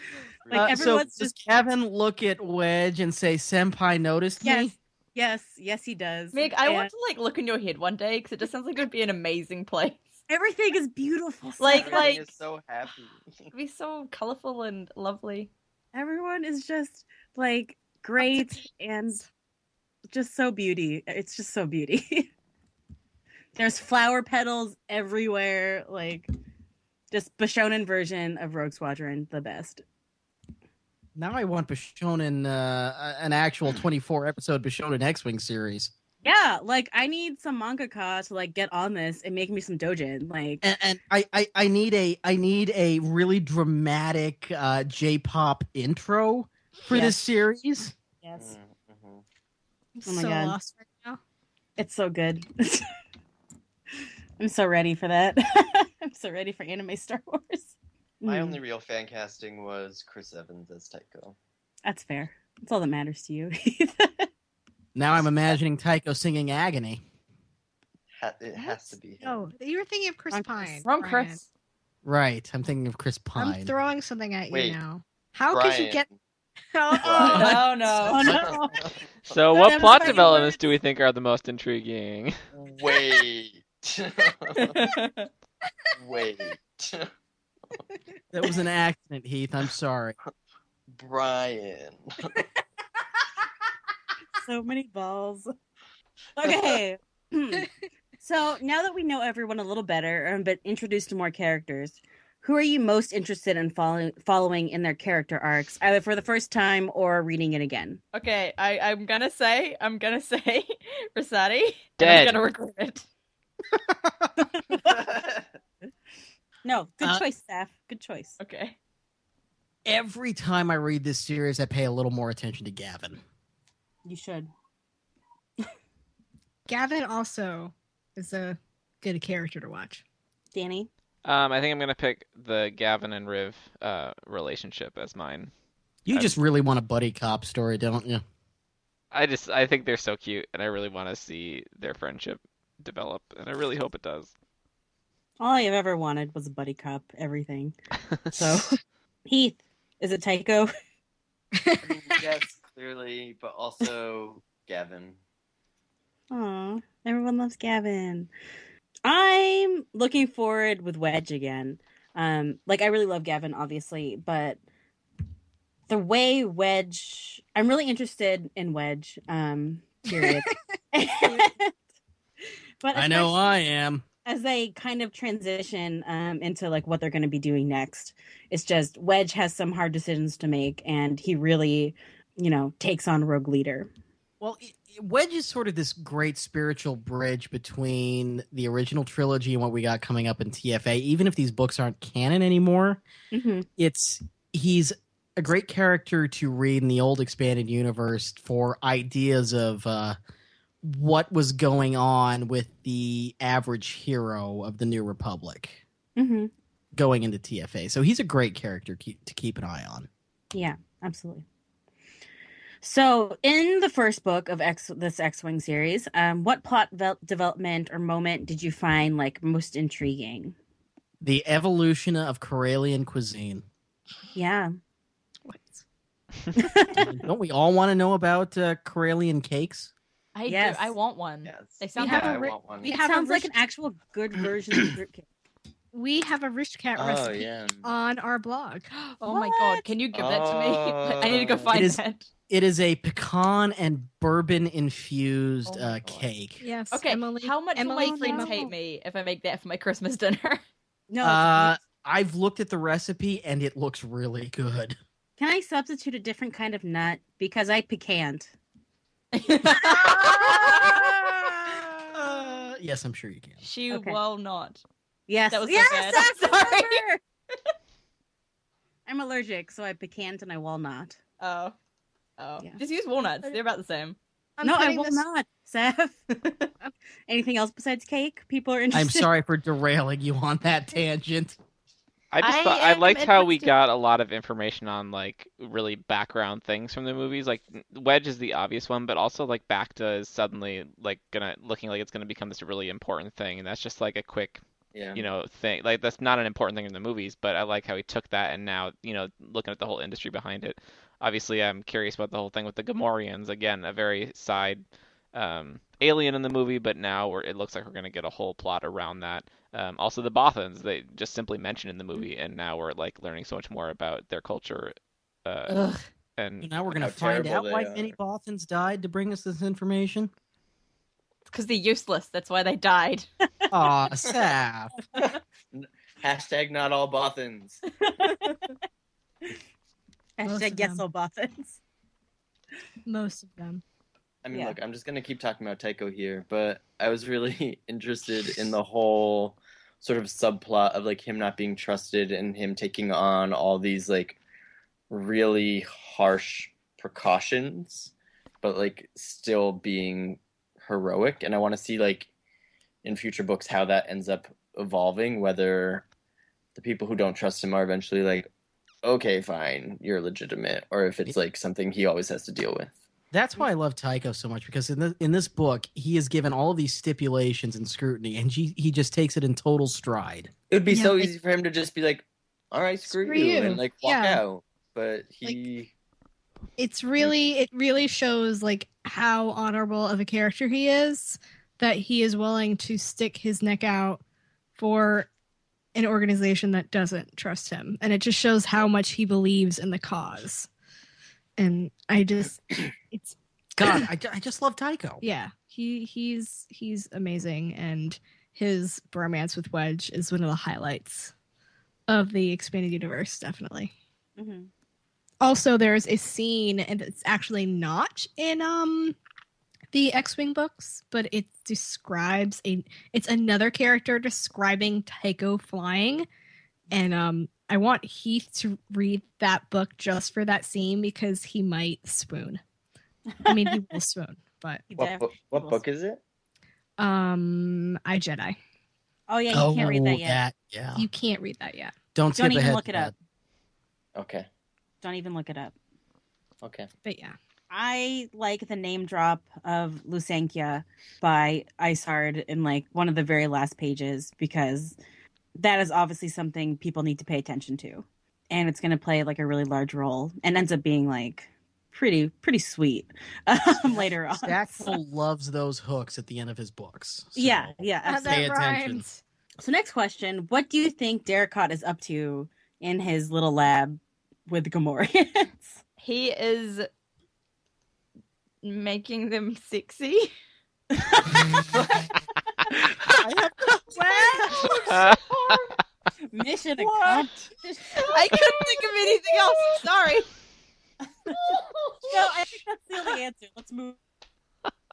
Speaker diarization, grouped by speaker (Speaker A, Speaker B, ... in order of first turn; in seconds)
Speaker A: 0.5-0.9, 11.7-13.5, 48.4-49.2, 58.3-61.4, 68.2-69.4, 74.5-74.8, 75.5-76.2, 77.0-77.7, 78.2-78.9, 82.5-84.9, 86.0-87.1, 91.0-92.4, 114.8-115.5, 151.8-155.2, 231.4-232.9, 237.0-237.9, 240.1-241.8, 294.9-295.3, 317.0-318.1, 325.2-327.8, 334.4-344.4, 345.1-352.3, 353.0-356.1, 356.8-358.5, 359.0-363.0, 370.7-375.9, 424.9-426.2, 434.1-434.5, 436.6-436.9
Speaker B: 0.5-1.4, 4.4-6.9, 10.3-12.2, 15.9-19.2, 20.1-22.3, 23.6-26.3, 27.1-29.8, 36.2-40.6, 46.9-47.2, 48.2-48.5, 50.1-50.6, 51.8-52.9, 54.4-58.6, 61.9-64.3, 70.3-70.6, 77.0-78.9, 79.5-80.6, 94.4-95.5, 96.4-97.7, 98.2-108.0, 114.4-115.0, 116.7-118.4, 124.1-124.5, 130.5-130.9, 145.4-147.8, 148.3-148.8, 149.3-150.7, 156.3-158.3, 159.1-164.6, 165.9-171.7, 172.8-173.6, 174.2-183.9, 193.3-193.7, 206.2-206.5, 210.5-211.4, 212.8-220.6, 224.3-224.7, 226.6-227.1, 230.5-230.9, 232.8-235.3, 239.3-239.8, 248.1-248.7, 251.1-251.8, 255.4-258.5, 259.6-261.9, 263.9-264.2, 265.3-267.2, 269.1-271.2, 274.6-276.3, 277.3-279.3, 328.1-328.7, 330.4-331.8, 334.5-334.8, 404.4-404.7, 423.3-423.9, 424.9-425.8, 429.3-430.4, 432.4-433.1, 435.0-435.8, 437.7-445.0, 445.6-455.0, 457.4-458.4, 459.6-465.8, 473.9-474.8, 476.3-478.2, 482.1-484.0
Speaker C: 0.5-4.7, 31.2-35.9, 40.6-47.9, 65.0-67.0, 72.0-73.7, 88.3-90.2, 113.7-114.3, 119.8-123.2, 136.1-138.2, 172.9-174.0, 184.4-193.0, 193.8-200.2, 200.8-205.8, 206.9-210.1, 221.2-223.6, 226.9-229.9, 241.7-246.6, 251.2-255.0, 262.1-263.6, 278.9-281.6, 316.6-320.3, 323.7-324.9, 363.3-370.5, 393.8-395.2, 429.5-431.1, 432.1-433.1, 453.9-459.0, 473.1-475.7, 476.8-477.3
Speaker D: 6.3-10.1, 11.6-12.3, 13.5-15.5, 70.6-71.5, 77.3-78.3, 84.5-85.3, 108.1-113.1, 118.4-118.8, 230.3-232.5, 238.9-242.3, 245.7-245.9, 246.9-250.6, 259.3-260.9, 263.6-264.8, 265.5-267.0, 271.4-271.8, 272.4-274.2, 276.4-276.7, 282.4-283.7, 321.5-323.3, 466.0-466.9, 468.6-470.3, 478.1-480.3
Speaker E: 50.0-51.2, 68.6-71.4, 73.4-76.0, 76.7-77.7, 79.8-80.5, 126.7-130.0, 151.6-152.0, 170.1-170.6, 171.1-171.5, 225.5-225.8, 232.0-233.5, 235.9-238.9, 246.6-248.7, 274.6-275.2, 330.4-331.0, 333.1-333.8, 370.9-371.3, 373.1-374.4, 376.8-384.2, 384.8-385.3, 385.9-390.7, 391.6-393.4, 395.2-401.3, 402.1-403.9, 405.4-409.2, 409.9-416.3, 416.9-422.6, 423.5-424.8, 427.0-428.6, 430.9-431.9, 437.1-437.4, 458.1-459.2
Speaker F: 79.3-82.3, 112.0-112.4, 131.2-135.5, 139.1-144.3, 282.3-294.6, 295.1-314.9, 315.4-316.9, 474.9-475.2